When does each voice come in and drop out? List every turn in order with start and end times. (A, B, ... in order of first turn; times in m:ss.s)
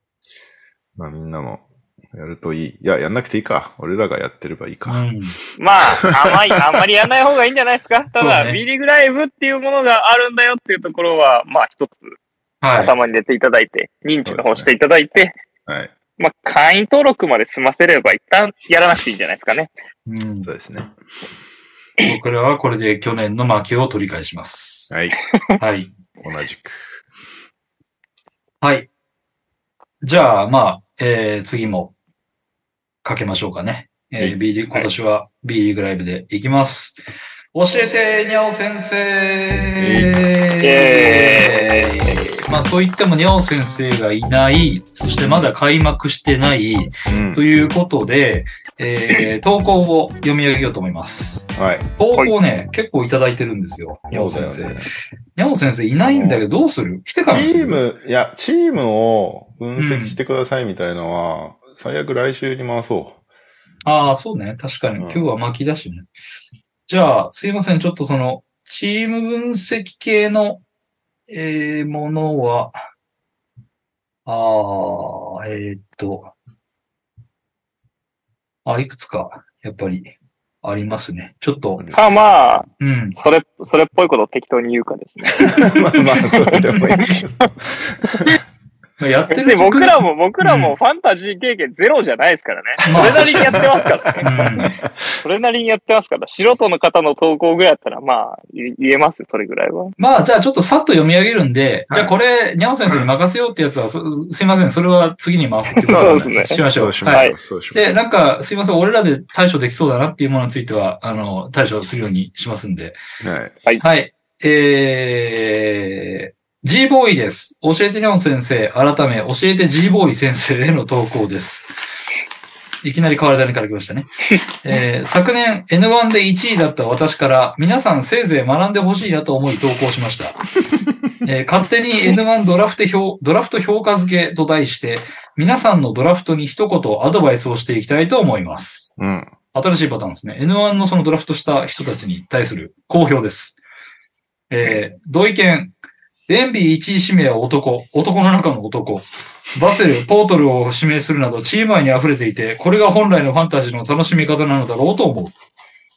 0:01.0-0:05.0 A
0:04.9-0:05.4 B
0:05.6-0:12.1 C
0:05.9-0:06.8 A
0:08.2-0:08.6 B
0:12.6-0:13.0 B
0:12.8-0:15.4 C
0:14.3-0:14.7 A
0:15.7-0:15.9 A
0:16.2-0:19.7 C
0:20.1-0:20.5 B
0:20.4-0:20.9 A
0:22.0-0:24.9 B
0:24.9-0:25.2 A
0:25.6-0:25.9 B
0:26.2-0:27.0 A
0:28.6-0:28.9 B
0:30.0-0:31.9 B
0:33.0-0:37.0 B
0:37.5-0:54.8 B
0:39.8-0:40.2 A
0:40.6-0:42.3 C
0:45.2-0:45.5 A
0:47.1-0:47.4 A
0:51.6-0:51.9 A
0:54.1-0:54.9 A
0:55.4-0:57.8 B
0:56.0-0:56.4 A
0:57.3-1:03.2 A
0:59.8-1:00.2 B
1:03.8-1:06.1 B
1:05.0-1:05.3 A
1:06.9-1:10.6 B
1:11.3-1:12.8 B
1:14.3-1:16.3 B
1:18.6-1:21.9 B
1:21.8-1:22.2 A
1:21.9-1:25.7 C
1:22.8-1:23.2 B
1:25.4-1:28.4 A
1:26.5-1:27.2 C
1:29.0-1:30.7 B
1:29.3-1:34.4 C
1:32.9-1:33.6 B
1:32.9-1:34.1 A
1:34.2-1:34.8 B
1:35.2-1:40.0 C
1:40.0-1:53.0 B
1:45.8-1:47.3 C
1:45.9-1:47.8 A
1:53.2-1:53.6 A
1:53.8-2:01.8 B
2:02.8-2:04.1 B
2:04.6-2:10.4 B
2:11.2-2:19.0 B
2:19.0-2:19.3 A
2:19.5-2:23.6 B
2:24.5-2:25.7 B
2:26.3-2:35.3 B